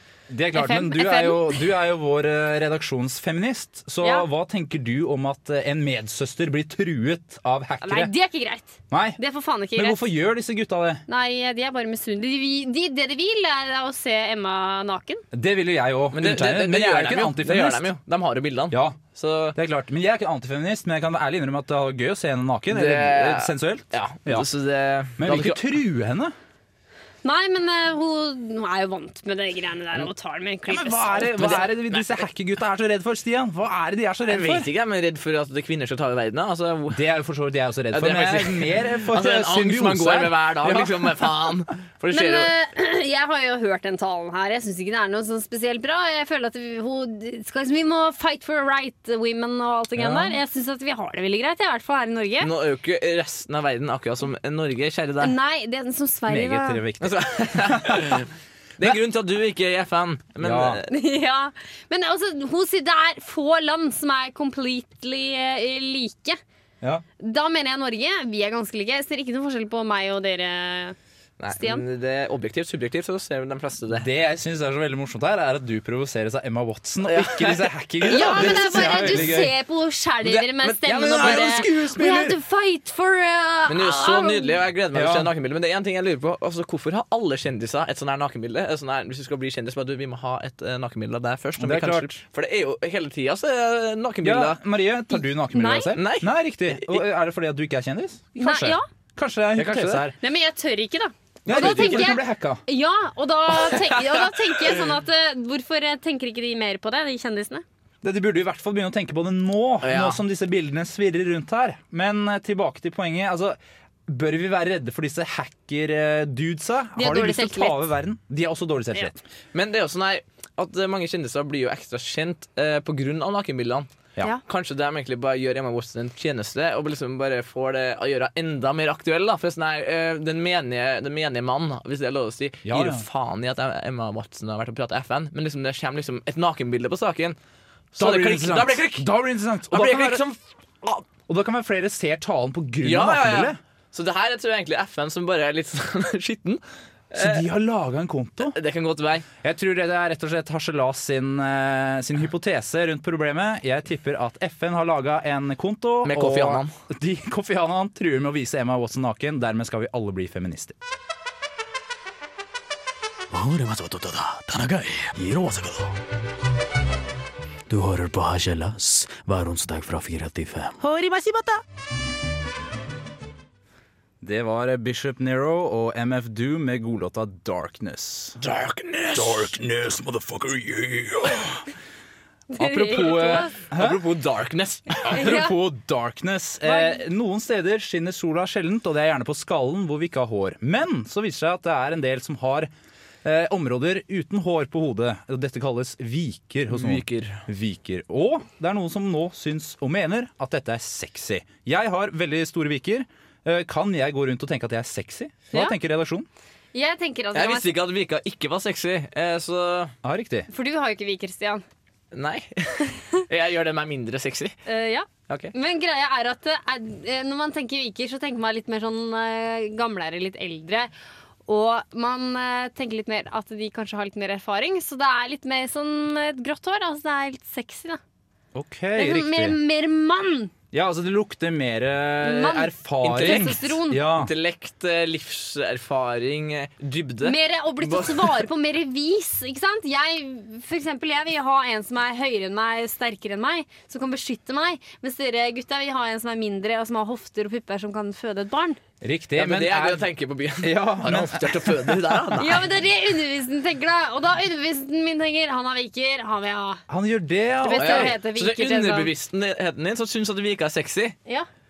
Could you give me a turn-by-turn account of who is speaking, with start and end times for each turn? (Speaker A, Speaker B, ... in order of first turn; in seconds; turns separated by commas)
Speaker A: 0.3-8.1, Speaker B: 0.5-1.6, Speaker B: 4.0-4.3, Speaker B: 7.8-10.0, Speaker A: 8.9-9.2, Speaker A: 9.7-11.0, Speaker B: 11.1-15.2, Speaker A: 15.3-17.9, Speaker C: 16.1-19.6, Speaker A: 18.7-19.0, Speaker A: 19.5-24.5, Speaker C: 22.7-25.6, Speaker A: 25.2-26.3, Speaker B: 27.2-31.6, Speaker A: 30.7-34.7, Speaker C: 31.4-32.1, Speaker C: 34.3-37.0, Speaker A: 36.9-41.5, Speaker C: 37.9-42.5, Speaker B: 42.1-52.5, Speaker A: 50.0-50.4, Speaker C: 52.4-55.3, Speaker B: 55.2-56.8, Speaker A: 56.3-58.2, Speaker C: 57.0-60.9, Speaker A: 60.4-60.8, Speaker B: 60.9-66.4, Speaker B: 67.2-71.0, Speaker C: 71.4-74.1, Speaker B: 71.5-71.8, Speaker A: 73.9-79.5, Speaker C: 77.0-79.4, Speaker B: 78.1-84.6, Speaker C: 80.2-81.6, Speaker A: 80.8-82.4, Speaker C: 83.7-94.6, Speaker A: 84.9-85.3, Speaker A: 91.6-92.2, Speaker A: 94.2-100.2, Speaker B: 95.1-95.9, Speaker C: 95.9-97.0, Speaker B: 98.4-98.8, Speaker C: 99.5-100.1, Speaker B: 100.2-107.6, Speaker C: 101.4-102.2, Speaker A: 101.5-102.6, Speaker C: 103.7-104.3, Speaker A: 108.0-119.2, Speaker C: 109.8-110.2, Speaker B: 117.0-117.8, Speaker C: 119.5-123.9, Speaker C: 124.5-137.4, Speaker A: 132.6-133.1, Speaker C: 137.9-139.1, Speaker A: 138.0-140.2, Speaker C: 139.7-141.1, Speaker A: 141.3-143.6, Speaker C: 142.8-147.4, Speaker A: 147.2-148.6, Speaker C: 148.4-149.3, Speaker A: 149.4-160.7, Speaker C: 156.0-156.7, Speaker D: 163.3-165.9, Speaker D: 167.7-171.6, Speaker A: 174.2-178.4, Speaker C: 178.4-179.6, Speaker A: 179.1-181.0, Speaker B: 182.5-183.5, Speaker A: 182.6-184.0, Speaker C: 183.7-185.3, Speaker A: 185.0-192.7, Speaker B: 185.1-185.6, Speaker B: 186.6-187.0, Speaker A: 193.2-206.3, Speaker C: 196.7-197.4, Speaker B: 206.7-207.8, Speaker C: 207.3-209.9, Speaker A: 210.0-210.5, Speaker B: 210.5-211.6, Speaker C: 212.1-214.6, Speaker B: 214.7-220.9, Speaker C: 215.3-215.5, Speaker B: 221.5-228.0, Speaker A: 228.5-229.6, Speaker B: 228.9-230.5, Speaker A: 230.7-234.3, Speaker B: 232.2-234.0, Speaker C: 233.0-238.4, Speaker B: 237.2-248.8, Speaker A: 249.0-250.1, Speaker C: 249.4-252.6, Speaker A: 250.6-252.4, Speaker B: 252.4-256.8, Speaker A: 256.9-258.1, Speaker B: 257.6-259.1, Speaker C: 257.8-261.1